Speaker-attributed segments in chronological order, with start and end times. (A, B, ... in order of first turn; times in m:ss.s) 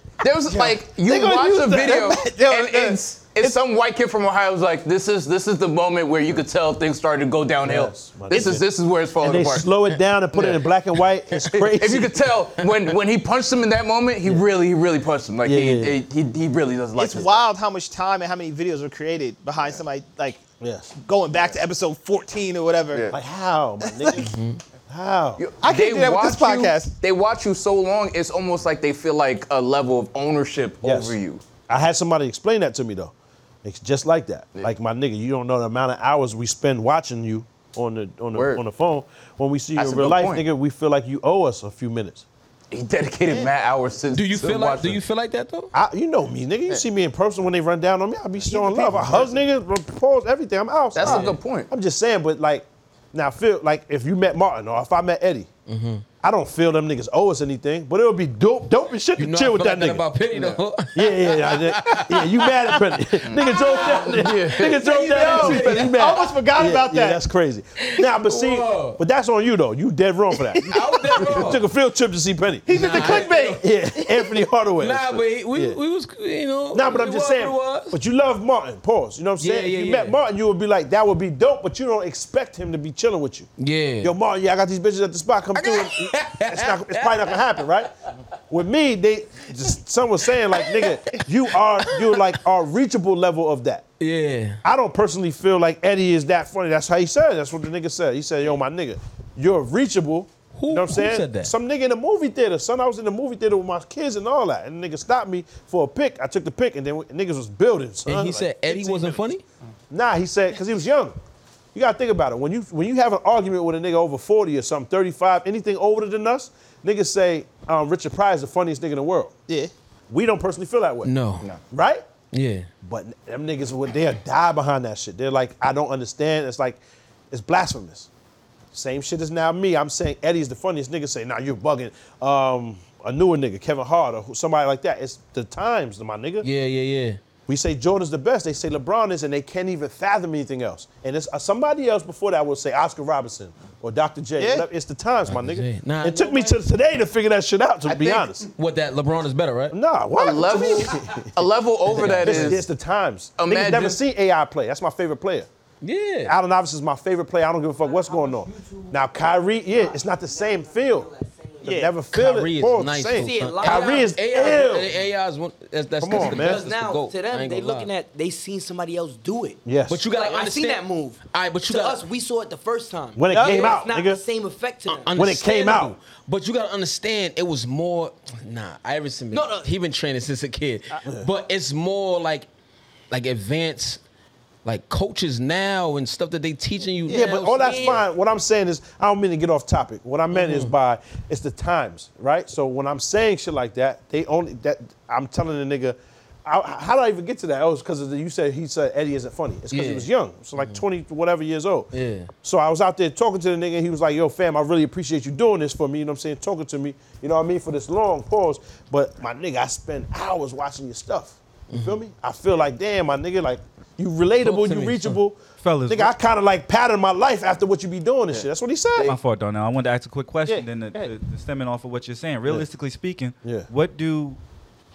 0:00.2-0:09.7 A
0:00.5-0:02.2 B
0:01.9-0:03.6 C
0:07.6-0:08.7 B
0:09.2-0:12.2 B
0:10.3-0:10.6 A
0:11.5-0:17.4 A
0:15.4-0:16.0 B
0:17.0-0:20.4 C
0:20.6-0:20.9 B
0:21.0-0:23.0 C
0:23.1-0:24.3 B
0:23.8-0:24.2 C
0:24.2-0:24.6 D
0:24.9-0:25.4 B
0:25.4-0:31.4 A
0:25.6-0:26.9 C
0:30.8-0:31.2 B
0:31.7-0:33.1 B
0:33.6-0:42.2 B
0:38.3-0:38.6 A
0:39.8-0:40.4 A
0:42.7-0:45.0 A
0:44.1-0:45.7 D
0:45.7-0:55.5 B
0:48.5-0:49.4 C
0:51.0-0:51.7 A
0:51.0-0:51.4 D
0:55.7-0:56.1 D
0:56.2-1:00.1 B
0:59.2-1:02.4 D
1:00.3-1:00.6 A
1:00.9-1:10.6 B
1:03.2-1:04.9 A
1:03.7-1:04.1 D
1:04.8-1:06.0 D
1:04.9-1:07.2 C
1:07.9-1:09.0 D
1:10.5-1:11.2 C
1:10.7-1:11.6 D
1:11.2-1:15.8 B
1:12.7-1:13.6 C
1:12.7-1:14.1 D
1:14.8-1:18.0 D
1:16.7-1:27.9 B
1:19.4-1:20.2 D
1:23.6-1:24.1 D
1:25.6-1:27.7 D
1:28.5-1:33.9 B
1:30.5-1:32.3 D
1:34.0-1:34.6 D
1:34.6-1:49.2 B
1:40.6-1:41.5 D
1:48.1-1:49.4 D
1:49.9-1:51.2 B
1:51.7-1:59.3 B
2:00.1-2:01.1 B
2:01.0-2:01.5 D
2:01.7-2:02.1 B
2:02.3-2:02.7 D
2:02.8-2:08.1 B
2:08.7-2:16.5 B
2:16.4-2:17.2 D
2:17.5-2:28.5 B
2:24.4-2:24.7 C
2:25.3-2:26.6 D
2:27.9-2:28.3 A
2:28.5-2:29.8 D
2:29.7-2:31.3 B
2:30.2-2:32.6 A
2:31.9-2:32.6 D
2:32.2-2:35.5 B
2:33.4-2:34.0 A
2:35.8-2:36.4 D
2:36.2-2:41.1 B
2:37.8-2:39.1 E
2:39.7-2:41.7 E
2:41.6-2:41.9 C
2:41.6-2:44.9 B
2:42.1-2:47.9 D
2:43.2-2:45.0 E
2:46.0-2:46.6 B
2:46.2-2:55.4 E
2:49.6-2:50.0 B
2:49.9-2:52.0 D
2:53.2-2:54.2 B
2:53.4-2:53.7 D
2:54.9-3:02.5 D
2:55.2-2:56.0 B
2:59.3-2:59.7 E
3:03.1-3:04.0 D
3:04.6-3:07.8 D
3:07.1-3:08.0 E
3:07.1-3:21.9 B
3:10.3-3:10.7 D
3:19.7-3:20.8 D
3:21.9-3:22.3 D
3:22.4-3:39.2 B
3:31.7-3:32.0 D
3:34.4-3:35.2 D
3:35.6-3:36.1 F
3:39.0-3:44.4 F
3:40.5-3:41.1 B